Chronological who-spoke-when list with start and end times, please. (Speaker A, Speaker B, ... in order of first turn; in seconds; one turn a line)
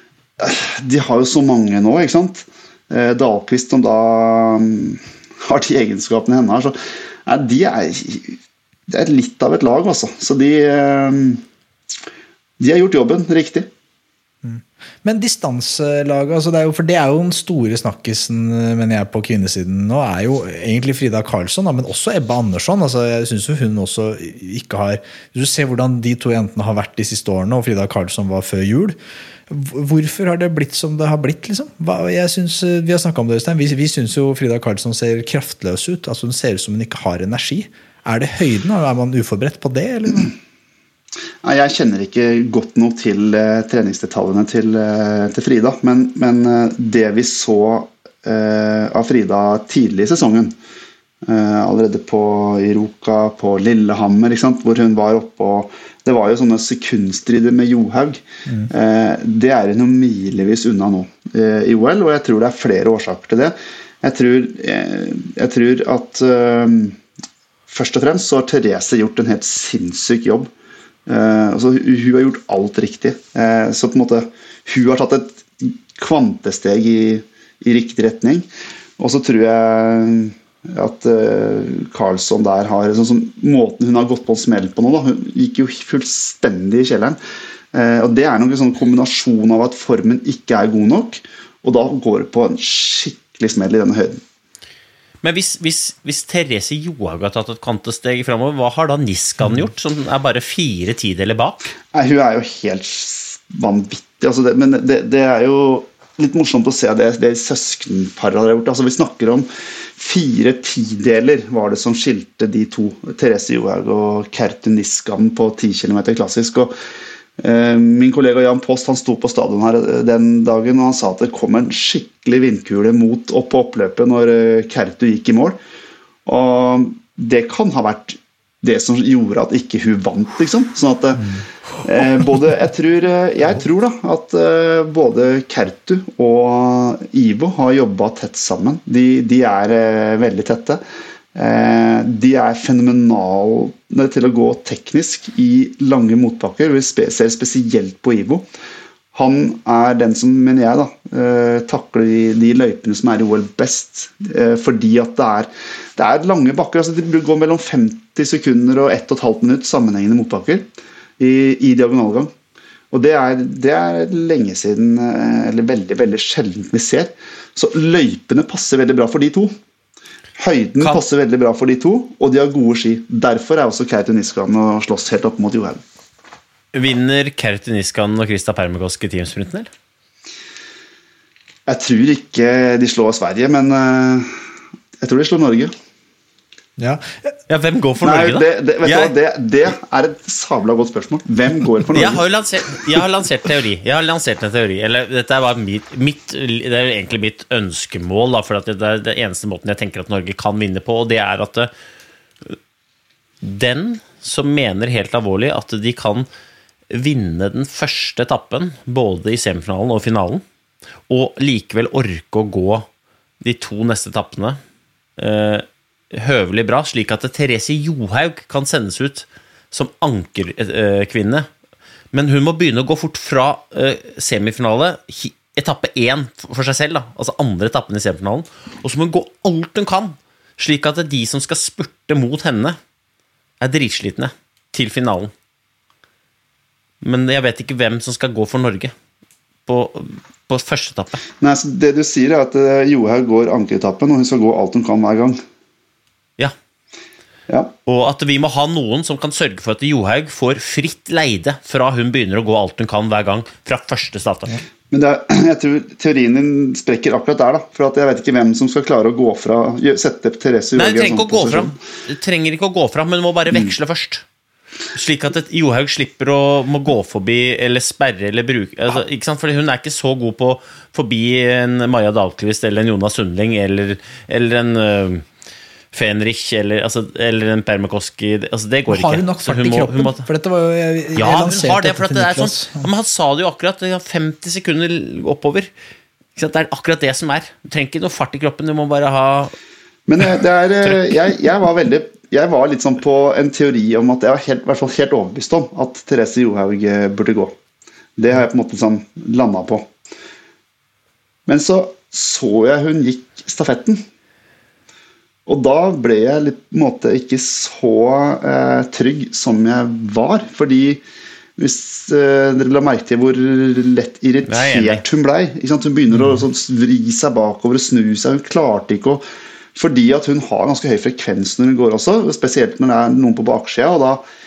Speaker A: 0.4-11.4
Speaker A: 12.6-13.7
Speaker B: 14.4-29.0
Speaker B: 29.5-40.3
Speaker A: 41.4-50.5
Speaker A: 51.2-67.0
Speaker A: 67.7-70.5
Speaker A: 71.1-78.5
Speaker A: 79.0-87.2
Speaker A: 87.7-94.2
Speaker C: 95.2-101.6
Speaker A: 101.9-116.7
Speaker A: 117.4-125.6
Speaker A: 126.2-140.8
Speaker A: 141.3-148.4
Speaker A: 149.1-160.6
Speaker A: 161.2-162.3
Speaker A: 162.9-169.5
Speaker A: 170.4-175.8
Speaker C: 176.7-179.7
Speaker A: 181.7-184.3
Speaker A: 185.0-185.7
Speaker B: 186.8-187.3
Speaker C: 187.5-189.1
Speaker A: 188.0-192.2
Speaker C: 191.9-201.7
Speaker C: 203.4-206.3
Speaker C: 206.9-210.4
Speaker C: 211.1-212.9
Speaker C: 213.4-214.6
Speaker C: 215.2-221.5
Speaker C: 222.1-232.8
Speaker C: 233.6-235.3
Speaker C: 237.0-238.9
Speaker C: 239.7-241.2
Speaker A: 241.4-245.4
Speaker C: 247.8-254.6
Speaker A: 254.9-261.8
Speaker C: 260.8-264.2
Speaker C: 264.9-275.2
Speaker C: 275.9-280.3
Speaker B: 278.9-282.9
Speaker C: 281.2-285.7
Speaker C: 286.4-289.5
Speaker A: 290.1-297.5
Speaker C: 290.8-291.2
Speaker A: 298.2-299.9
Speaker A: 301.5-304.0
Speaker A: 305.5-311.0
Speaker A: 311.6-324.2
Speaker C: 314.5-315.0
Speaker B: 316.1-316.4